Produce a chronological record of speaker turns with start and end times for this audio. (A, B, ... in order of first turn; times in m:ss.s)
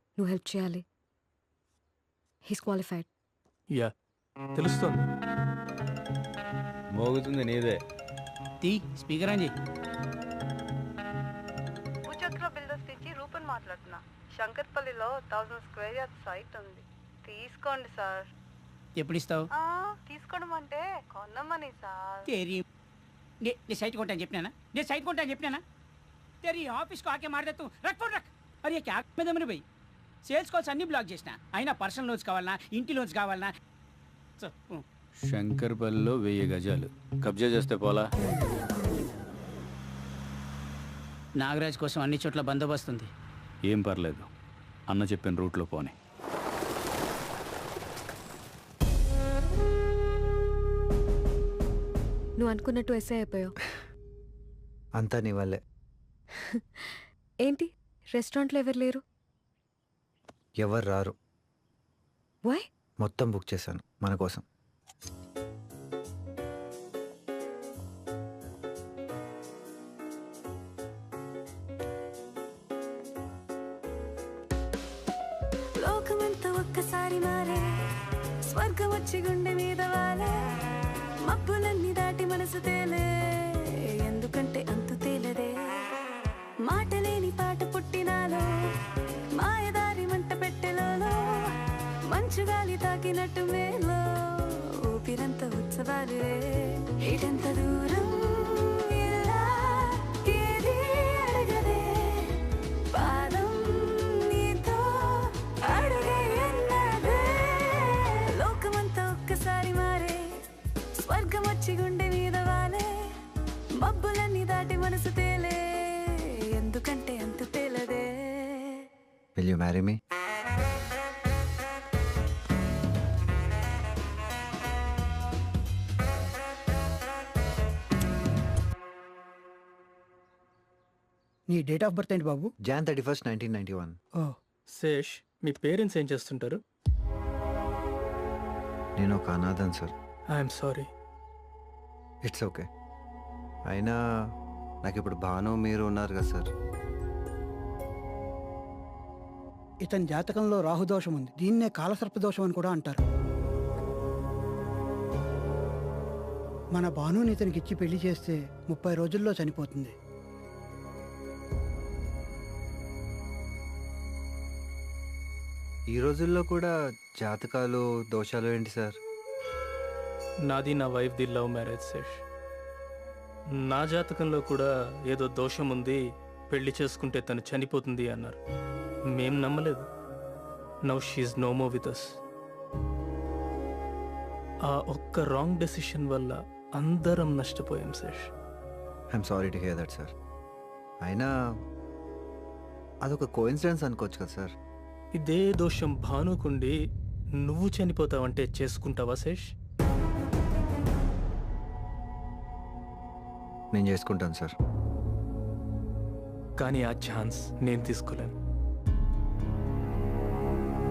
0:00.2-0:00.8 A
0:02.5-0:03.1 A
0:04.6-0:05.0 B
0:06.9-0:07.8 C
0:08.6-0:09.5 D
0:12.1-0:18.3 E
0:19.0-0:19.5 D
0:19.6-0:22.3 E
0:22.3-0:22.6 D
0:23.4-0:25.6 D
0:26.4-0:29.6 D
0:30.2-0:33.5 D
0:34.4-0:34.8 D
0:35.2-0:38.1 C
0:41.4-0:43.1 D
0:43.6-0:44.3 C
0:44.9-0:45.9 C
0:52.4-0:53.5 A
0:55.0-0:55.6 F
0:56.4-0:59.0 A
1:00.6-1:01.2 F
1:03.0-1:04.4 F
1:15.8-1:17.6 G
1:18.5-1:20.3 G
1:21.2-1:25.5 G
1:26.6-1:28.5 G
1:29.4-1:31.2 G
1:32.1-1:42.4 G
1:42.9-1:50.2 G
1:51.0-1:52.9 G
1:53.8-1:58.7 G
1:59.4-2:00.0 F
2:11.5-2:12.5 H
2:12.6-2:14.0 F
2:14.7-2:16.6 B
2:19.0-2:19.9 F
2:20.3-2:20.9 B
2:22.2-2:22.7 F
2:23.7-2:24.0 F
2:24.8-2:26.5 F
2:29.8-2:33.0 H
2:36.8-2:39.9 H
2:45.9-2:49.0 F
2:50.5-2:52.2 B
2:53.7-2:56.0 B
2:56.5-2:58.4 B
2:59.1-2:59.8 B
3:00.9-3:02.2 B
3:04.7-3:08.3 B
3:09.1-3:10.1 F
3:11.0-3:11.3 F
3:13.0-3:14.5 F
3:15.1-3:16.7 B
3:17.4-3:19.5 B
3:23.7-3:24.5 F
3:26.6-3:28.3 B